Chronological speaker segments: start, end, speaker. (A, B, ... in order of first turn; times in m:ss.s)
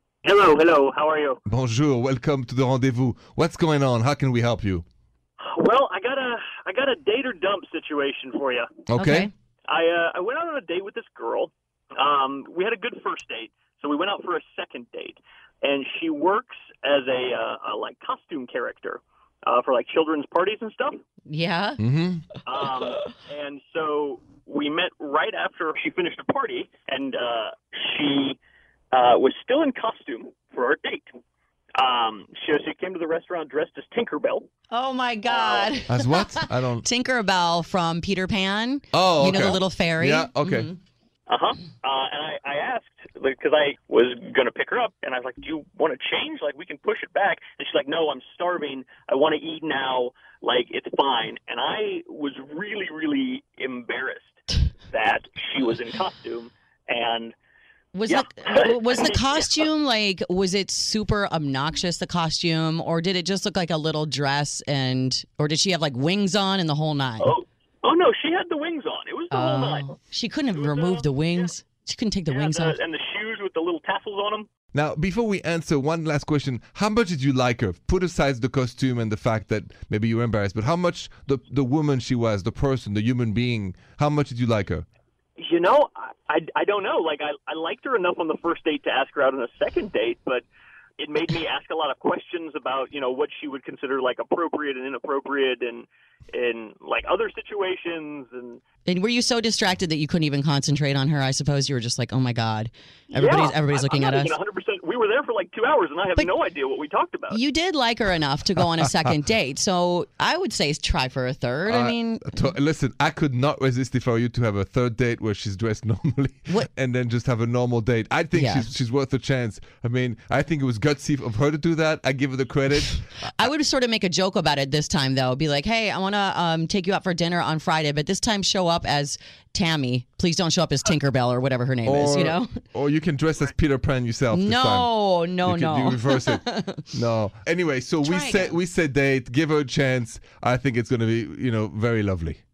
0:00.2-0:01.4 A
0:01.4-0:04.8 B
0:05.4-0:08.7 A
0:08.9-0:09.3 B
0:09.0-0:09.3 C
0:09.7-0:21.0 A
0:21.3-0:21.8 C
0:21.8-0:22.2 B
0:22.4-0:28.4 A
0:28.9-0:31.1 A
0:31.8-0:34.5 A
0:34.7-0:40.8 C
0:35.2-0:35.8 A
0:35.9-0:36.8 B
0:38.9-0:40.7 B
0:41.3-0:57.3 A
0:57.9-1:07.3 C
0:58.1-0:59.6 A
1:07.2-1:10.0 A
1:09.3-1:12.8 C
1:10.5-1:11.5 A
1:12.3-1:14.5 A
1:14.7-1:24.9 B
1:25.4-1:30.4 A
1:31.0-1:38.6 A
1:38.8-1:44.3 C
1:43.1-1:47.4 A
1:47.3-1:52.3 C
1:51.7-2:03.2 B
1:58.3-1:58.7 C
2:03.3-2:12.5 C
2:11.8-2:22.4 B
2:14.3-2:16.8 C
2:18.0-2:18.6 C